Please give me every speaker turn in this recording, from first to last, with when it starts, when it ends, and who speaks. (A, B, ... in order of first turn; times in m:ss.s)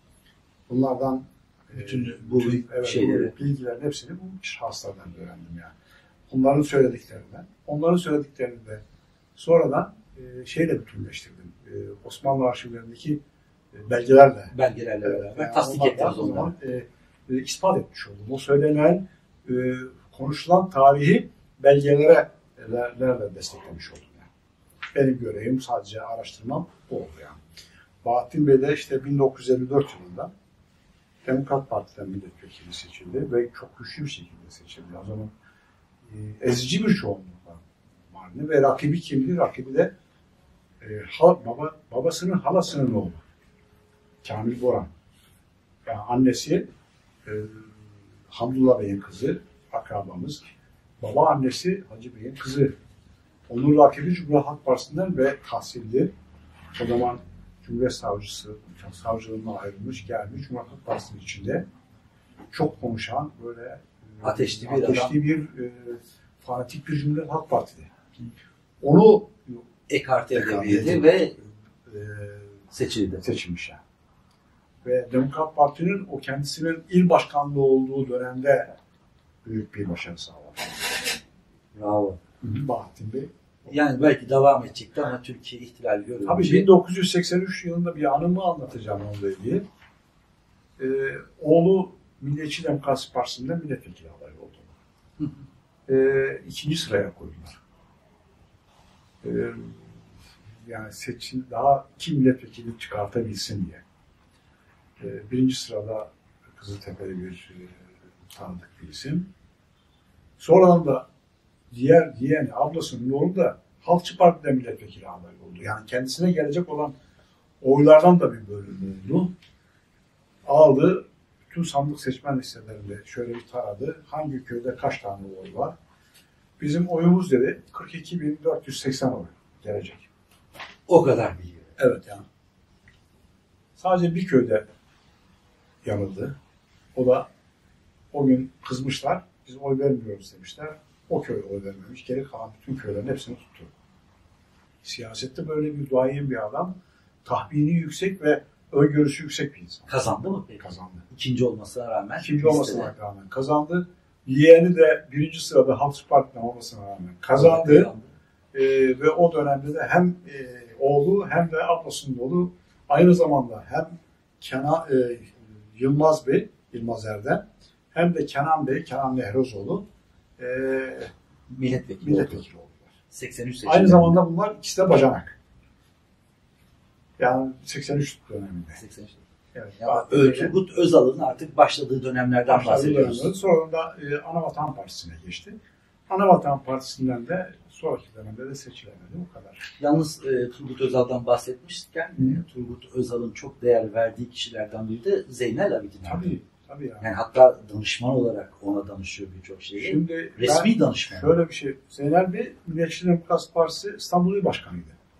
0:00.7-0:05.7 A
0:01.7-0:03.3 B
0:06.3-0:08.8 A
0:09.4-0:13.2 A
0:13.7-0:24.3 A
0:14.5-0:16.5 B
0:24.9-0:27.4 A
0:28.0-0:30.3 A
0:31.2-0:35.3 A
0:36.0-0:39.9 A
0:40.8-0:43.2 A
0:44.2-0:44.9 A
0:45.8-0:46.6 A
0:47.2-0:52.7 A
0:53.5-0:56.1 A
0:56.7-1:01.6 A
1:02.5-1:07.9 A
1:04.2-1:05.1 B
1:08.8-1:09.7 A
1:09.9-1:11.4 B
1:10.3-1:12.6 A
1:12.7-1:13.2 B
1:13.2-1:13.8 A
1:14.8-1:18.7 A
1:19.4-1:21.0 A
1:21.7-1:22.2 B
1:22.4-1:23.7 A
1:23.7-1:26.7 B
1:26.2-1:29.6 A
1:30.8-1:34.8 A
1:35.9-1:37.6 A
1:39.2-1:43.8 A
1:45.0-1:49.3 A
1:50.4-1:51.1 A
1:51.7-1:57.0 A
1:57.6-1:59.3 A
2:00.4-2:05.7 A
2:06.6-2:10.1 A
2:10.9-2:11.7 B
2:11.8-2:12.2 A
2:13.8-2:14.7 A
2:15.8-2:16.3 A
2:16.9-2:17.3 A
2:18.1-2:23.7 A
2:24.8-2:29.9 A
2:29.9-2:32.9 B
2:30.6-2:31.0 A
2:32.2-2:37.9 A
2:37.4-2:38.1 B
2:38.5-2:49.8 A
2:50.4-2:51.1 A
2:51.5-2:52.4 B
2:52.0-2:52.9 A
2:53.1-2:54.2 B
2:53.6-2:55.4 A
2:57.2-2:58.8 A
2:58.8-2:59.2 B
2:59.5-3:00.5 A
2:59.8-3:03.3 B
3:02.5-3:05.6 A
3:06.1-3:09.7 A
3:09.8-3:16.4 B
3:12.2-3:12.4 A
3:16.0-3:17.1 A
3:17.0-3:21.4 B
3:19.8-3:25.0 A